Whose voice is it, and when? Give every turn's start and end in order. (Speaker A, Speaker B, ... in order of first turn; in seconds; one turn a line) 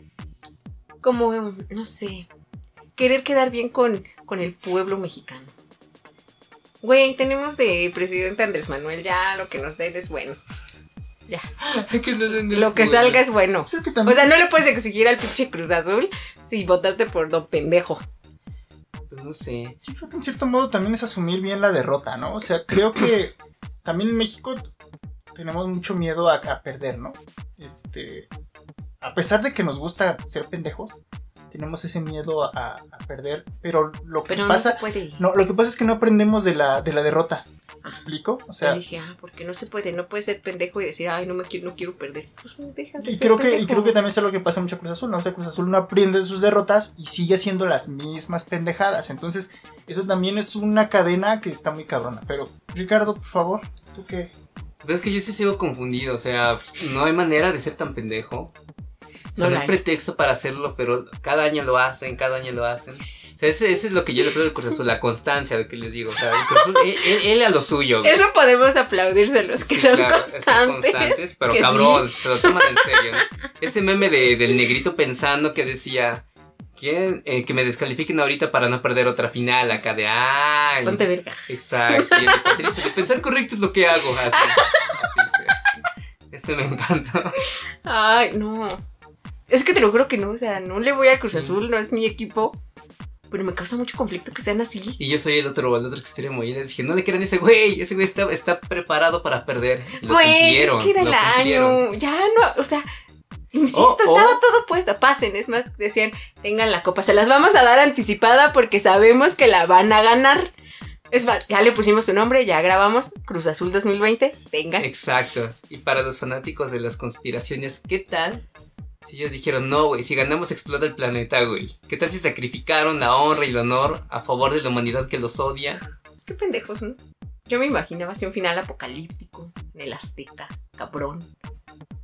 Speaker A: 1.0-2.3
Speaker A: 3.0-5.5
Speaker A: 6.8-10.4
Speaker B: 11.6-13.2
Speaker A: 12.5-18.0
Speaker C: 13.7-14.4
Speaker B: 19.1-19.8
Speaker C: 19.9-24.7
Speaker C: 25.4-28.3
Speaker C: 29.0-31.0
Speaker C: 31.5-38.8
Speaker A: 34.3-35.2
Speaker A: 38.6-44.0
Speaker C: 43.0-54.3
Speaker B: 54.8-58.5
Speaker A: 59.4-59.8
Speaker B: 59.4-68.2
Speaker A: 66.5-66.8
Speaker A: 68.0-73.1
Speaker B: 69.6-76.2
Speaker B: 76.8-87.4
Speaker A: 80.8-82.8
Speaker A: 84.3-85.0
Speaker A: 87.8-88.8
Speaker A: 89.5-92.6
Speaker B: 91.2-91.6
Speaker A: 93.3-95.0
Speaker B: 95.0-101.8
Speaker A: 100.0-102.9
Speaker A: 103.5-110.5
Speaker C: 103.8-104.3
Speaker A: 111.1-114.9
Speaker B: 114.8-118.4
Speaker B: 119.0-125.8
Speaker A: 126.2-131.3